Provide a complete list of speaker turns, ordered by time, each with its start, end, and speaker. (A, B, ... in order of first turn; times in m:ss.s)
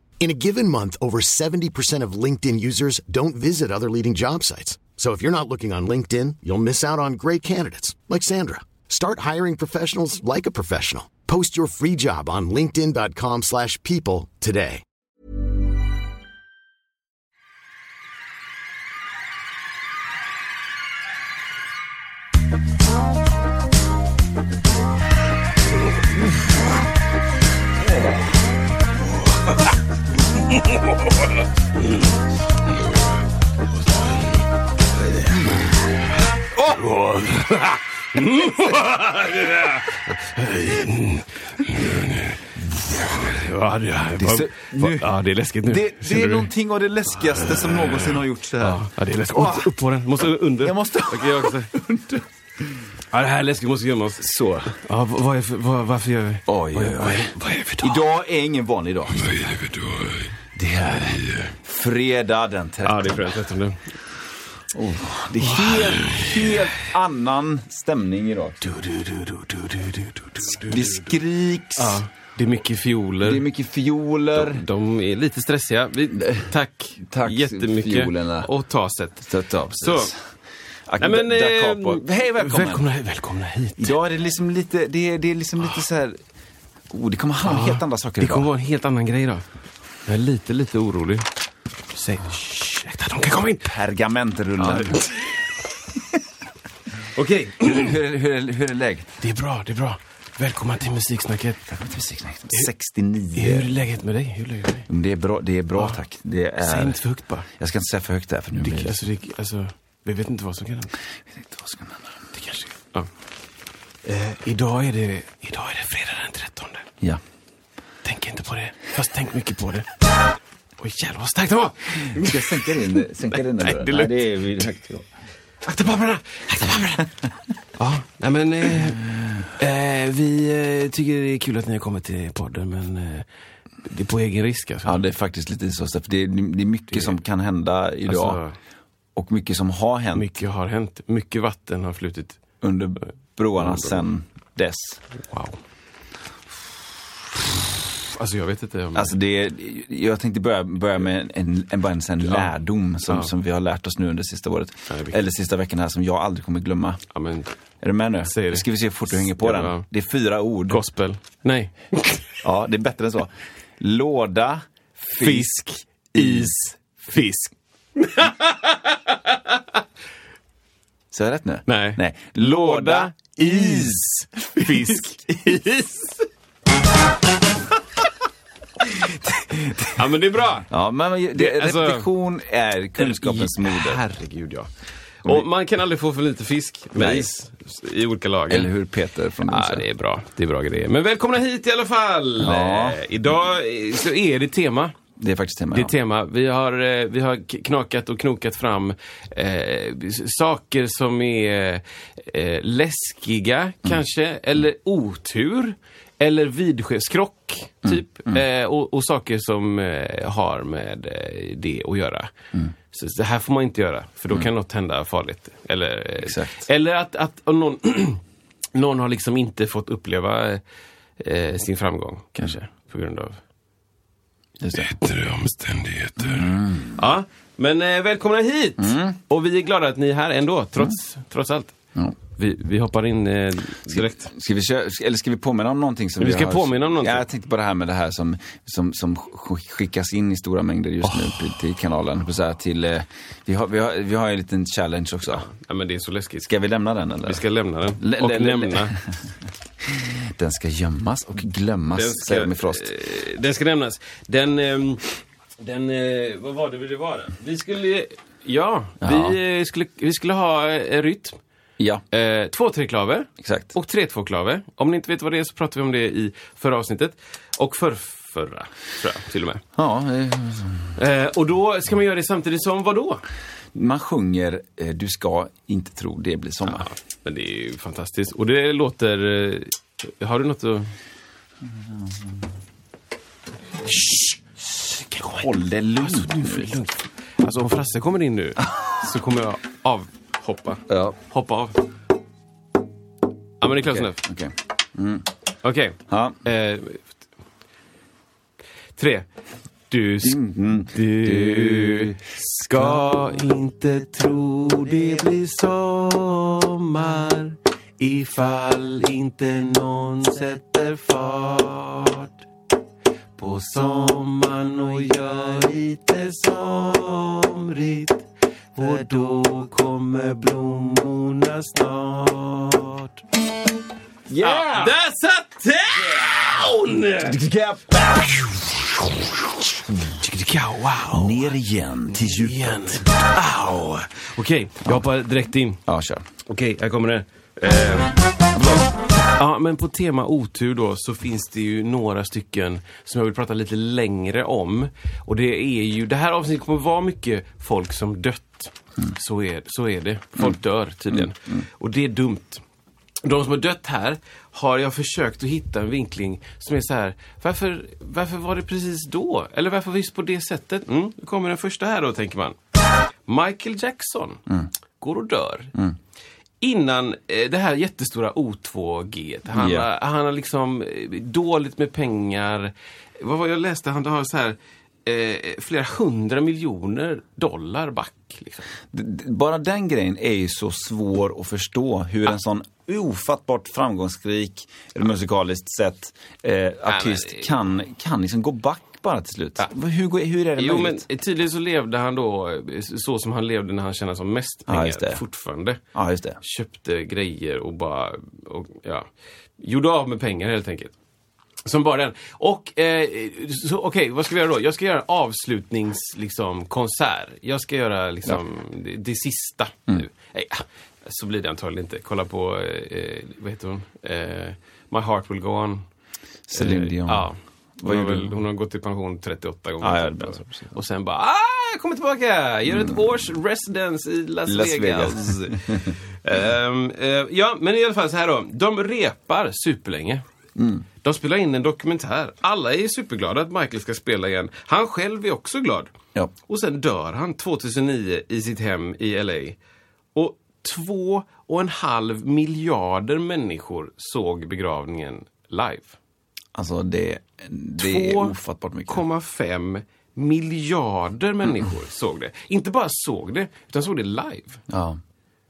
0:00.2-0:14.8 A
0:30.5-0:30.8 B
0:33.7-0:34.4 B
0:36.6-0:46.5 B
0:44.2-0:45.1 C
0:45.6-0:49.7 C
0:47.1-0:51.7 B
0:50.6-0:52.2 C
0:53.1-0:58.1 B
0:54.2-0:54.8 C
0:56.5-0:59.6 C
0:59.2-1:00.2 B
1:00.6-1:03.3 C
1:00.8-1:01.5 B
1:02.8-1:03.8 B
1:04.7-1:08.6 C
1:05.4-1:06.7 B
1:08.6-1:11.2 B
1:10.4-1:12.0 C
1:11.8-1:13.4 B
1:13.2-1:14.6 C
1:14.3-1:20.1 B
1:16.2-1:16.5 C
1:17.0-1:18.5 C
1:19.3-1:20.2 C
1:20.9-1:22.8 C
1:21.0-1:24.0 B
1:23.8-1:26.2 C
1:26.9-1:28.5 C
1:27.4-1:29.4 B
1:30.1-1:31.3 B
1:31.9-1:33.8 B
1:33.6-1:35.1 C
1:34.6-1:35.5 B
1:37.1-1:38.0 B
1:37.7-1:39.2 C
1:39.2-1:41.8 B
1:41.7-1:43.7 C
1:43.4-1:44.9 B
1:44.9-1:47.0 C
1:45.8-1:46.0 B
1:46.6-1:47.5 B
1:47.6-1:49.0 C
1:48.6-1:50.9 B
1:51.3-1:52.1 C
1:52.3-1:53.1 B
1:54.0-1:56.9 B
1:58.0-2:00.1 B
2:00.8-2:04.3 B
2:02.0-2:05.0 C
2:05.6-2:07.1 B
2:07.8-2:13.3 B
2:13.8-2:15.0 B
2:14.8-2:18.4 C
2:16.9-2:17.2 B
2:18.1-2:18.6 B
2:19.2-2:20.3 C
2:20.1-2:22.4 B
2:22.6-2:25.0 C
2:23.6-2:24.0 B
2:25.2-2:25.6 B
2:27.3-2:29.2 B
2:28.9-2:37.0 C
2:32.2-2:32.5 B
2:33.1-2:33.3 B
2:34.9-2:35.2 B
2:37.1-2:37.5 B
2:37.8-2:40.8 C
2:38.2-2:39.9 B
2:40.7-2:42.4 B
2:42.4-2:45.6 C
2:45.2-2:49.8 B
2:46.1-2:46.6 C
2:51.1-2:55.0 C
2:51.7-2:56.3 B
2:59.0-3:00.7 B
3:00.7-3:04.0 C
3:01.3-3:02.1 B
3:03.0-3:04.7 B
3:05.2-3:08.7 B
3:07.0-3:07.3 C
3:08.5-3:09.8 C
3:09.4-3:15.0 B
3:12.4-3:13.0 C
3:15.2-3:15.9 C
3:15.7-3:32.3 B
3:27.8-3:28.4 C
3:32.9-3:38.2 B
3:36.2-3:36.6 C
3:38.7-3:40.6 B
3:41.2-3:43.4 B
3:44.6-3:44.9 C
3:44.7-3:51.7 B
3:46.2-3:47.0 C
3:48.8-3:49.2 C
3:52.3-3:54.3 B
3:53.9-4:05.5 C
3:56.2-3:57.3 B
4:05.3-4:06.6 B
4:06.5-4:07.4 C
4:07.2-4:09.0 B
4:08.0-4:09.2 C
4:09.8-4:12.9 C
4:11.9-4:21.4 B
4:19.0-4:19.4 C
4:22.1-4:29.6 B
4:23.4-4:23.7 C
4:29.8-4:30.9 C
4:31.0-4:33.2 B
4:33.8-4:36.9 C
4:36.6-4:40.9 B
4:41.9-4:42.4 C
4:43.9-4:51.8 B
4:45.4-4:46.7 C
4:50.9-4:51.2 C
4:53.6-4:54.2 B
4:53.6-4:55.3 C
4:55.6-4:57.0 B
4:56.1-4:56.4 C
4:59.0-4:59.3 B
4:59.9-5:12.4 B
5:00.2-5:02.2 C
5:02.8-5:03.1 C
5:13.4-5:23.2 B
5:24.3-5:25.0 C
5:24.4-5:27.4 B
5:27.2-5:28.8 C
5:29.9-5:30.1 C
5:30.2-5:31.6 B
5:31.1-5:33.1 C
5:32.1-5:35.8 B
5:35.9-5:36.2 C
5:36.4-5:52.6 B
5:38.5-5:38.9 C
5:51.1-5:51.6 C
5:53.2-6:02.6 B
6:03.3-6:04.4 B
6:05.0-6:05.7 B
6:06.6-6:18.7 B
6:09.5-6:09.9 C
6:18.9-6:31.0 C
6:26.9-6:27.5 B
6:30.6-6:35.8 B
6:34.7-6:35.2 C
6:36.0-6:36.4 C
6:36.4-6:41.0 B
6:41.6-6:55.8 B
6:56.5-6:57.3 C
6:56.5-7:10.2 B
6:57.8-6:58.3 C
6:59.8-7:00.7 C
7:02.7-7:03.0 C
7:04.5-7:06.0 C
7:10.6-7:10.9 C
7:11.0-7:15.9 B
7:16.5-7:19.6 B
7:20.2-7:26.0 B
7:26.6-7:29.0 C
7:27.8-7:34.6 B
7:34.7-7:35.0 C